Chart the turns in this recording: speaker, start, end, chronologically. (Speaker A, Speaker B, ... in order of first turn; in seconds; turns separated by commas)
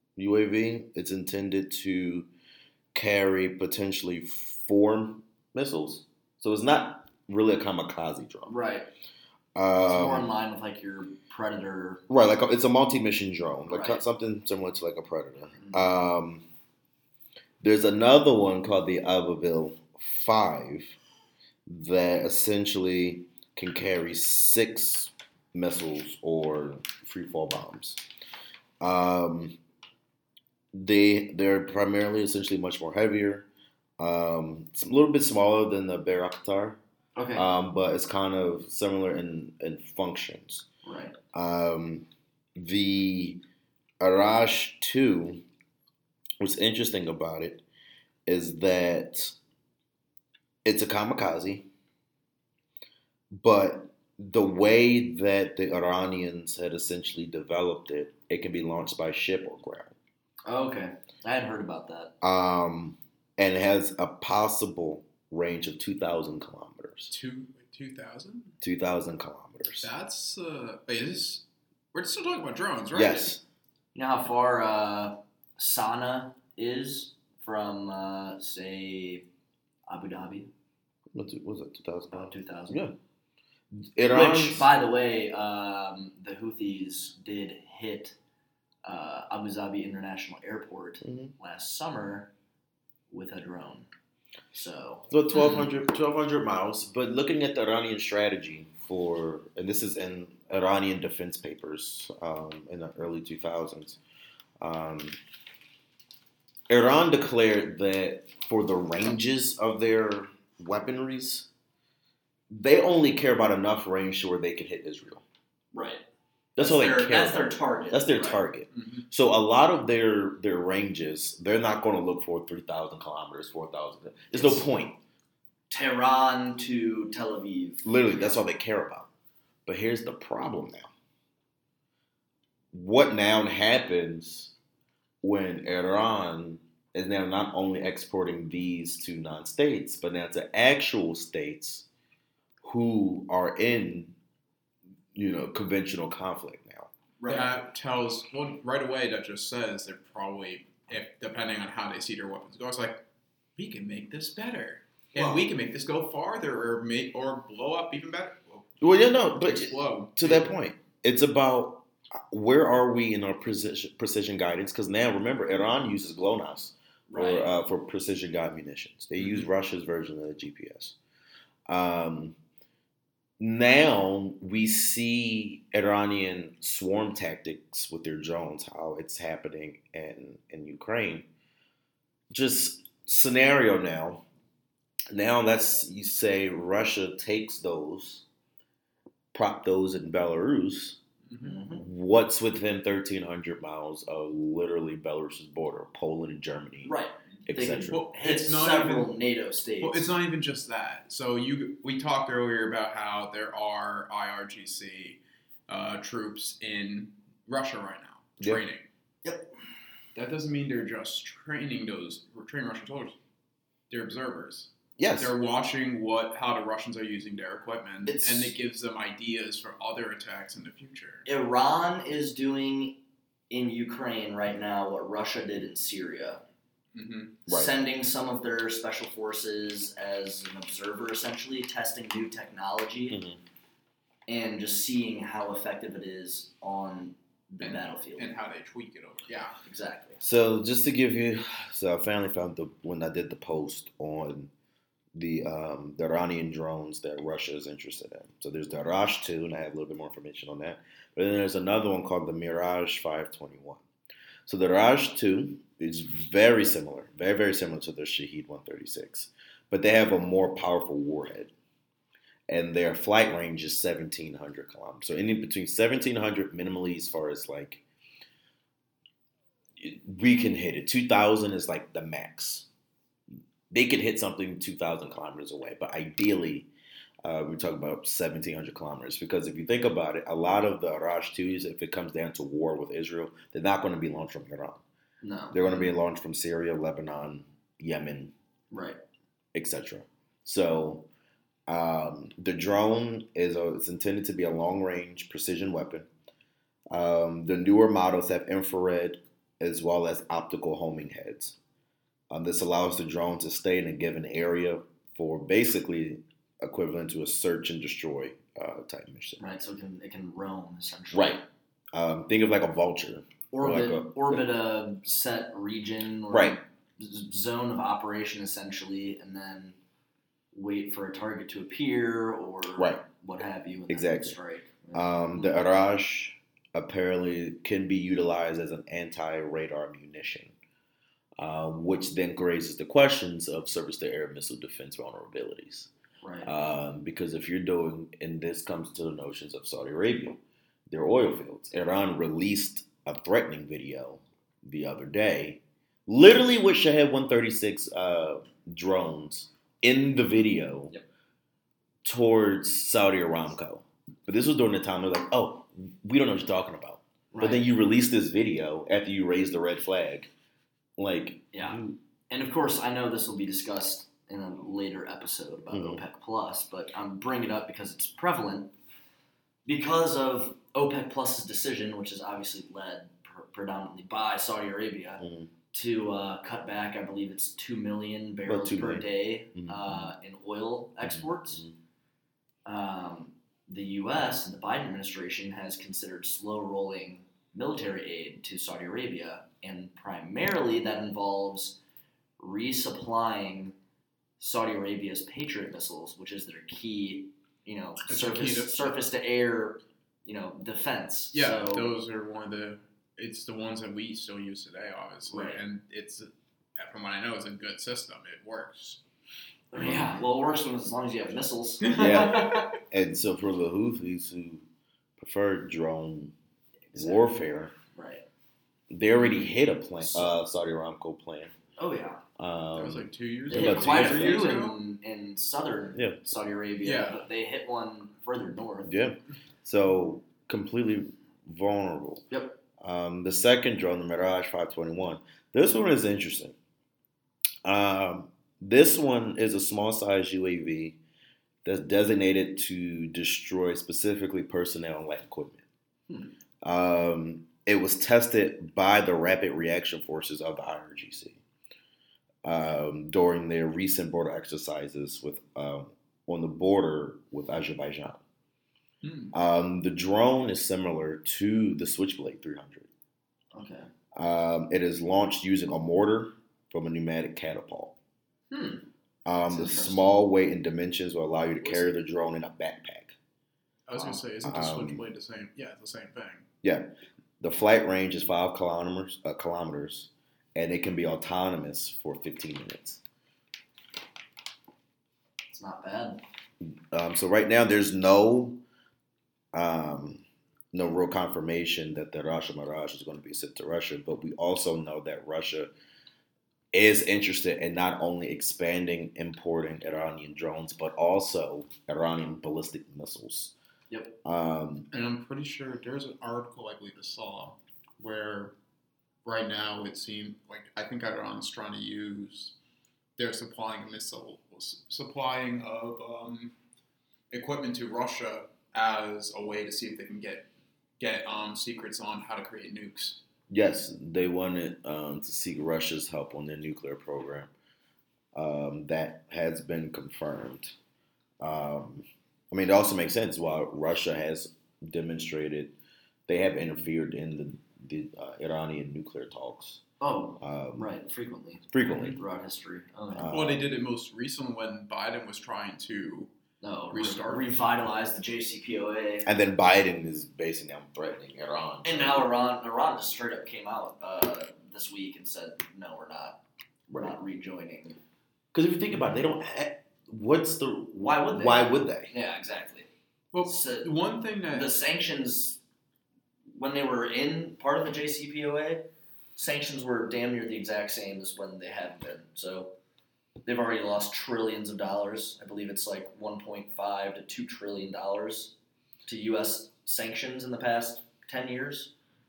Speaker A: 0.1-2.3, Speaker A: 2.9-8.5, Speaker B: 8.4-8.9, Speaker A: 9.5-10.3, Speaker B: 9.9-12.0, Speaker A: 12.1-16.4, Speaker B: 13.7-14.0, Speaker B: 15.6-15.9, Speaker A: 17.6-21.0, Speaker A: 21.6-28.0, Speaker A: 28.8-29.6, Speaker A: 30.7-33.5, Speaker A: 34.0-36.8, Speaker B: 37.1-37.5, Speaker A: 37.3-40.6, Speaker B: 40.8-41.1, Speaker A: 41.3-43.4, Speaker A: 44.0-45.4, Speaker A: 46.4-47.6, Speaker A: 48.2-49.3, Speaker A: 50.6-51.7, Speaker A: 53.3-59.9, Speaker B: 60.5-62.1, Speaker A: 62.2-67.1, Speaker C: 67.1-68.5, Speaker A: 68.6-69.9, Speaker C: 69.8-73.3, Speaker A: 72.9-73.4, Speaker B: 73.9-79.2, Speaker B: 79.9-80.5, Speaker A: 81.1-83.0, Speaker B: 82.1-82.8, Speaker A: 83.7-84.7, Speaker B: 84.1-88.2, Speaker B: 88.8-92.3, Speaker A: 91.0-91.3, Speaker B: 93.1-93.9, Speaker B: 94.5-95.1, Speaker A: 95.1-104.0, Speaker C: 95.3-95.7, Speaker A: 104.6-105.2, Speaker A: 106.7-111.5, Speaker A: 112.5-115.2, Speaker B: 115.7-116.0, Speaker A: 116.5-125.0, Speaker B: 116.6-118.4, Speaker C: 118.7-119.0, Speaker B: 124.3-124.6, Speaker B: 125.7-128.4, Speaker A: 127.8-129.1, Speaker A: 129.7-130.9, Speaker A: 132.7-134.5, Speaker A: 135.2-141.8, Speaker A: 142.6-144.1, Speaker A: 145.1-146.9, Speaker B: 147.2-147.5, Speaker C: 147.2-153.0, Speaker C: 153.6-158.7, Speaker A: 158.8-170.9, Speaker C: 159.4-160.5, Speaker B: 167.1-167.5, Speaker A: 171.7-172.4, Speaker A: 173.4-181.3, Speaker A: 182.3-184.2, Speaker A: 185.1-188.2, Speaker A: 189.3-191.0, Speaker C: 191.3-191.6, Speaker B: 191.4-191.8, Speaker A: 191.7-196.9, Speaker B: 196.8-200.1, Speaker A: 197.5-198.0, Speaker C: 197.7-199.1, Speaker C: 199.8-208.9, Speaker B: 209.2-209.5, Speaker C: 210.1-213.2, Speaker C: 213.9-221.2, Speaker A: 215.0-215.3, Speaker B: 218.0-218.5, Speaker B: 221.2-222.9, Speaker B: 223.5-226.4, Speaker C: 226.9-227.4, Speaker A: 227.5-227.7, Speaker B: 227.5-233.2, Speaker A: 233.1-233.4, Speaker B: 234.3-238.3, Speaker C: 237.6-239.6, Speaker B: 239.6-240.2, Speaker A: 240.2-244.5, Speaker A: 245.1-253.8, Speaker A: 254.4-261.5, Speaker A: 262.5-267.8, Speaker A: 269.8-272.7, Speaker A: 273.7-276.7, Speaker A: 277.2-284.8, Speaker B: 285.2-285.9, Speaker A: 285.5-288.3, Speaker B: 288.7-289.0, Speaker A: 289.5-291.1, Speaker A: 291.7-296.1, Speaker A: 296.9-301.6, Speaker A: 302.3-309.4, Speaker B: 309.4-311.4, Speaker A: 311.1-314.4, Speaker B: 313.5-319.8, Speaker A: 316.3-316.6, Speaker B: 320.5-325.5, Speaker A: 322.8-323.0, Speaker A: 323.9-324.3, Speaker A: 324.9-330.5, Speaker A: 331.4-335.9, Speaker B: 336.2-336.5, Speaker A: 336.4-350.9, Speaker A: 352.0-360.3, Speaker B: 357.3-357.7, Speaker A: 361.0-362.0, Speaker B: 361.5-368.7, Speaker A: 365.7-366.0, Speaker B: 369.6-381.6, Speaker A: 375.2-375.5, Speaker A: 378.4-380.1, Speaker A: 381.0-381.8, Speaker B: 382.6-391.8, Speaker B: 392.4-393.7, Speaker B: 394.4-401.9, Speaker C: 398.1-398.9, Speaker C: 401.3-409.0, Speaker B: 405.3-405.6, Speaker B: 409.7-412.7, Speaker C: 411.9-412.5, Speaker A: 412.0-414.6, Speaker A: 415.2-416.3, Speaker B: 416.9-417.2, Speaker A: 416.9-417.7, Speaker B: 417.9-418.2, Speaker A: 418.9-421.5, Speaker B: 419.2-419.4, Speaker B: 420.0-420.3, Speaker B: 421.8-422.2, Speaker A: 422.4-424.5, Speaker C: 422.7-424.8, Speaker B: 423.5-428.9, Speaker A: 425.9-426.2, Speaker C: 426.8-427.2, Speaker A: 428.8-432.2, Speaker B: 432.3-432.6, Speaker A: 432.8-436.6, Speaker A: 437.6-441.0, Speaker A: 441.6-445.6, Speaker A: 446.6-451.4, Speaker A: 452.4-458.2, Speaker C: 459.0-459.3, Speaker A: 459.3-462.9, Speaker B: 463.5-463.9, Speaker A: 464.1-467.9, Speaker B: 468.5-468.9, Speaker A: 469.2-473.1, Speaker B: 469.5-470.2, Speaker B: 471.6-471.9, Speaker C: 473.9-476.5, Speaker A: 474.4-475.0, Speaker A: 476.6-483.0, Speaker B: 485.5-486.2, Speaker A: 486.6-488.6, Speaker A: 489.5-495.7, Speaker A: 496.7-503.5, Speaker B: 503.9-504.1, Speaker A: 504.2-504.9, Speaker C: 504.9-508.5, Speaker C: 509.2-512.5, Speaker C: 513.2-516.5, Speaker C: 517.3-520.5, Speaker C: 521.0-523.2, Speaker A: 523.5-527.5, Speaker A: 528.3-530.7, Speaker A: 531.4-535.7, Speaker A: 536.3-539.8, Speaker B: 540.0-543.3, Speaker A: 540.4-540.9, Speaker A: 541.7-542.2, Speaker A: 543.1-543.8, Speaker C: 543.2-546.3, Speaker B: 546.6-549.3, Speaker C: 546.9-547.4, Speaker A: 549.2-552.3, Speaker B: 551.8-556.4, Speaker A: 556.9-557.1, Speaker B: 557.0-558.0, Speaker A: 558.5-562.1, Speaker B: 561.0-562.9, Speaker C: 563.3-564.8, Speaker B: 563.4-563.9, Speaker B: 564.5-565.6, Speaker B: 566.5-572.7, Speaker B: 573.4-578.5, Speaker B: 579.0-581.9